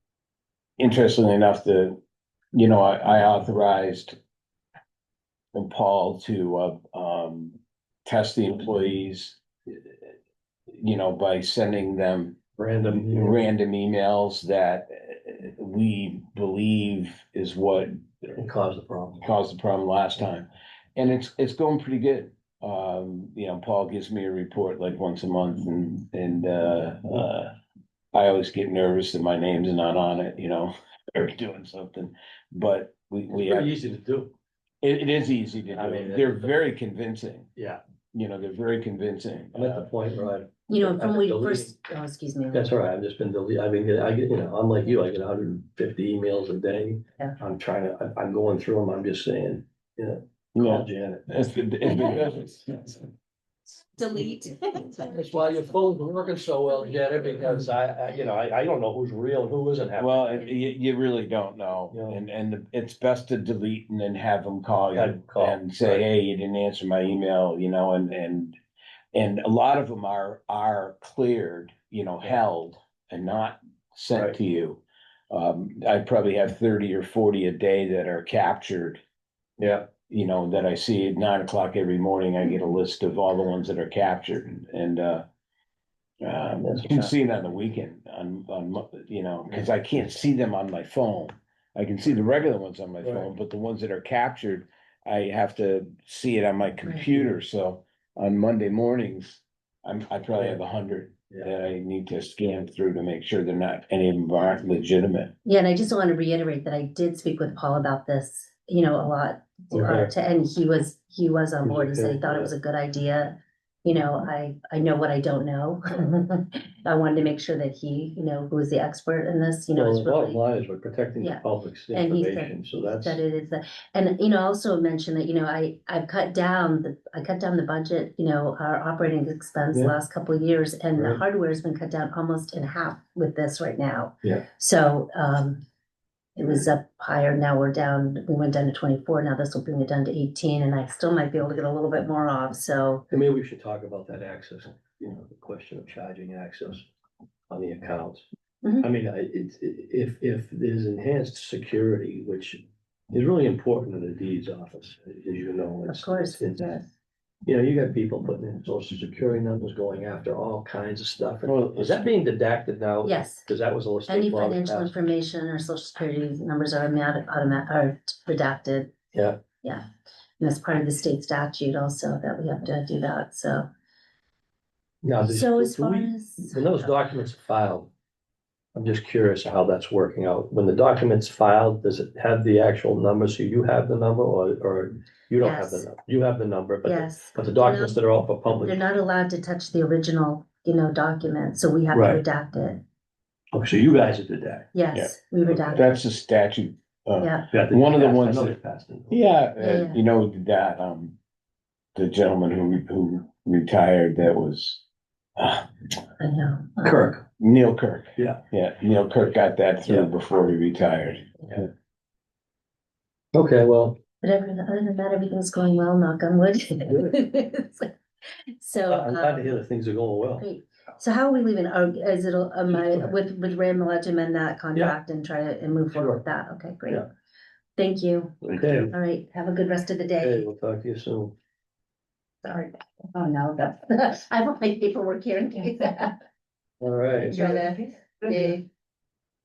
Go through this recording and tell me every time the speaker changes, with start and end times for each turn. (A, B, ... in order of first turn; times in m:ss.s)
0:00.8-0:02.0 A
0:02.5-0:04.2 A
0:05.5-0:09.4 A
0:10.8-0:12.4 A
0:12.6-0:13.5 B
0:12.9-0:18.0 A
0:18.4-0:19.2 B
0:19.2-0:27.5 A
0:28.1-0:33.7 A
0:33.3-0:34.3 B
0:34.8-0:37.5 A
0:35.7-0:36.5 B
0:38.1-0:39.9 A
0:39.5-0:41.8 B
0:40.7-0:42.7 C
0:42.5-0:51.4 B
0:50.6-0:52.8 A
0:54.0-0:55.1 C
0:55.0-1:00.3 B
1:00.0-1:08.6 A
1:01.9-1:02.2 B
1:04.9-1:06.0 B
1:09.1-1:19.0 A
1:19.6-1:19.9 B
1:20.1-1:25.2 A
1:26.2-1:45.3 A
1:26.6-1:27.1 B
1:33.0-1:33.3 B
1:45.4-2:00.4 C
1:49.7-1:50.1 B
1:51.6-1:52.5 B
1:59.7-2:03.2 B
2:01.2-2:15.6 C
2:11.0-2:11.2 B
2:16.4-2:23.1 C
2:23.1-2:26.9 B
2:27.5-2:28.2 B
2:28.6-2:28.9 C
2:28.8-2:36.8 B
2:35.9-2:36.5 C
2:37.4-2:45.0 B
2:41.4-2:42.1 A
2:43.0-2:43.4 C
2:44.1-2:48.9 C
2:49.1-2:49.4 B
2:50.4-2:53.7 C
2:55.0-2:57.9 B
2:55.3-2:56.9 C
2:58.8-3:08.8 B
3:05.4-3:05.9 C
3:06.8-3:08.0 C
3:08.6-3:12.8 C
3:11.9-3:12.2 B
3:13.5-3:14.7 B
3:14.7-3:15.9 C
3:14.9-3:18.5 A
3:17.2-3:17.5 C
3:17.5-3:19.2 B
3:19.1-3:21.2 A
3:19.6-3:20.0 C
3:22.0-3:24.8 A
3:25.4-3:25.7 A
3:26.2-3:27.1 C
3:26.8-3:27.2 B
3:27.4-3:31.6 A
3:28.2-3:28.4 B
3:29.9-3:30.1 B
3:33.3-3:34.0 B
3:34.2-3:37.9 C
3:36.9-3:37.2 B
3:38.6-3:39.6 C
3:38.9-3:40.5 B
3:40.4-3:47.1 C
3:42.7-3:43.1 B
3:46.0-3:46.2 B
3:47.8-3:50.5 C
3:48.4-3:48.9 B
3:50.2-3:51.3 B
3:52.4-3:56.2 C
3:56.8-3:57.7 B
3:57.3-3:58.6 C